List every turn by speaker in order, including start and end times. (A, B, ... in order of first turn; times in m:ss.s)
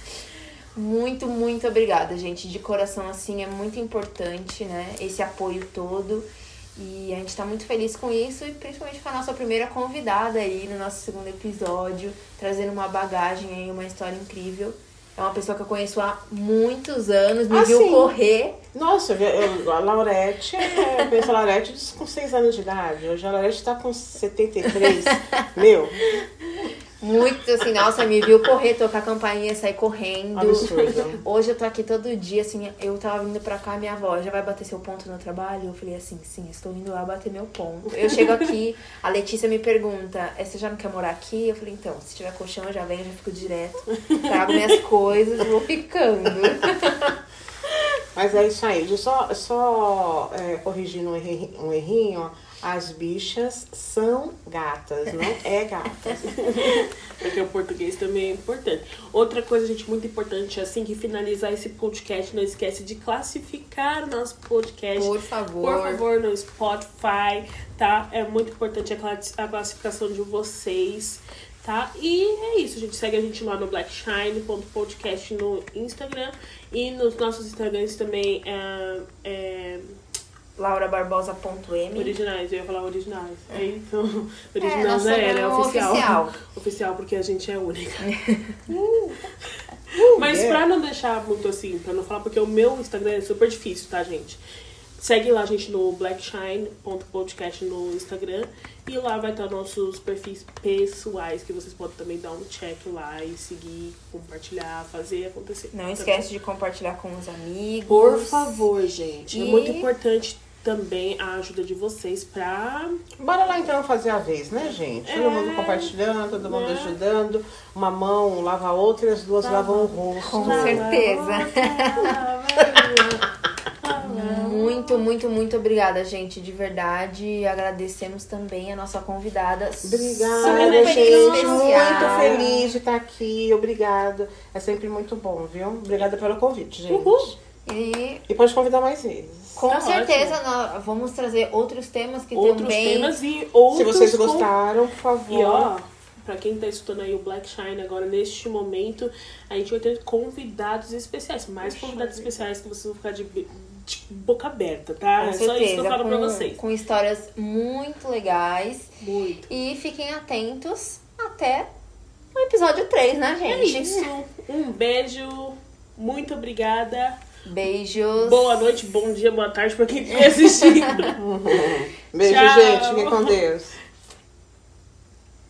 0:00.8-0:18.6 A
0:17.5-0:18.1 B
0:18.7-0:26.0 B
0:24.8-0:25.1 A
0:27.0-0:47.1 A
0:30.3-0:31.2 B
0:30.6-0:31.0 C
0:38.0-0:38.5 C
0:48.1-0:56.3 B
0:56.2-1:20.0 C
1:05.0-1:06.0 A
1:20.6-1:22.1 A
1:21.9-1:28.1 C
1:24.6-1:26.4 A
1:28.0-1:28.6 A
1:28.7-1:34.4 C
1:29.9-1:30.6 B
1:35.0-1:46.3 C
1:45.7-1:48.7 A
1:47.9-1:53.0 C
1:49.3-1:49.9 A
1:53.2-2:00.9 B
1:55.0-1:57.0 C
1:59.4-2:03.3 C
2:00.3-2:02.1 A
2:03.8-2:05.0 C
2:04.0-2:12.4 A
2:09.8-2:17.4 B
2:10.4-2:12.6 C
2:16.9-2:17.3 C
2:17.6-2:18.2 A
2:18.3-2:19.6 B
2:19.6-2:23.2 A
2:19.7-2:20.4 C
2:22.3-2:24.5 C
2:23.7-2:25.7 B
2:25.3-2:36.6 C
2:31.7-2:32.2 B
2:35.2-2:38.9 A
2:39.0-2:39.5 C
2:39.5-2:41.7 A
2:42.3-2:44.1 A
2:43.4-2:47.2 C
2:47.4-2:48.6 A
2:48.2-2:51.7 C
2:51.2-2:53.8 B
2:52.2-2:53.4 C